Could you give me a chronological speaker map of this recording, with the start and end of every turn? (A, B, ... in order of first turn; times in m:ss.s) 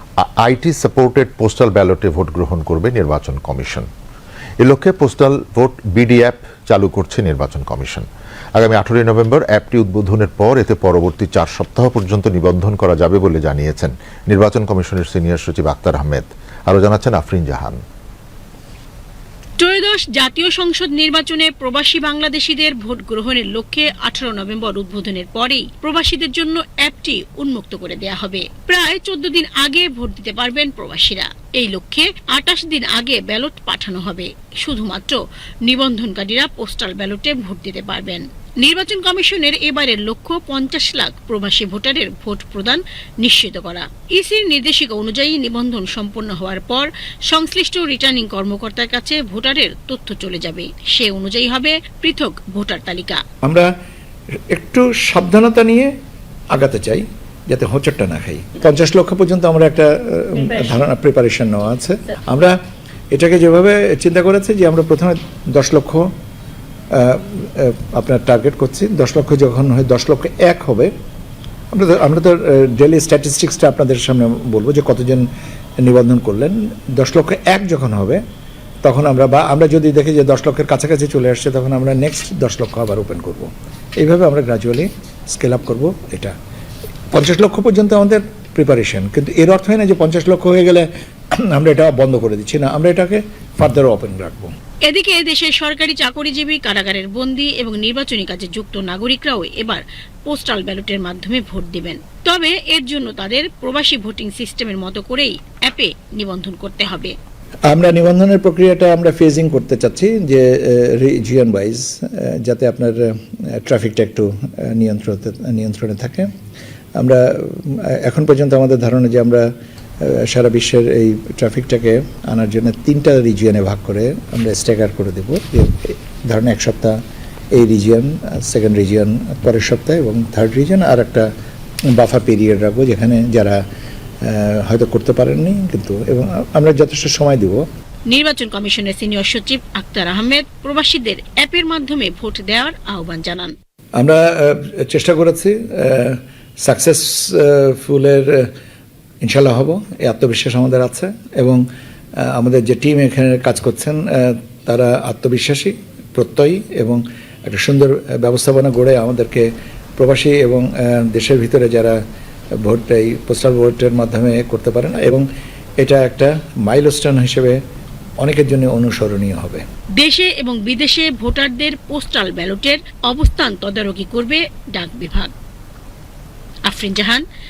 0:00.2-0:03.9 A
0:04.6-0:17.8 A
0:19.6-0:53.2 B
0:54.5-0:55.9 C
0:56.5-1:02.6 C
1:03.1-1:06.1 C
1:06.9-1:10.9 C
1:11.7-1:15.3 C
1:15.8-1:18.2 C
1:18.8-1:26.3 C
1:27.1-1:30.9 C
1:31.5-1:34.5 C
1:34.8-1:47.1 B
1:47.7-1:53.1 C
1:53.6-1:56.3 C
1:57.0-1:59.4 C
2:00.0-2:07.0 C
2:07.6-2:11.2 C
2:12.0-2:13.6 C
2:14.2-2:17.6 C
2:18.1-2:23.5 B
2:24.0-2:28.5 C
2:29.2-2:31.6 C
2:32.2-2:42.0 C
2:42.6-2:45.2 C
2:45.8-2:47.6 C
2:48.2-2:49.6 C
2:50.0-2:55.3 B
2:56.6-2:57.2 B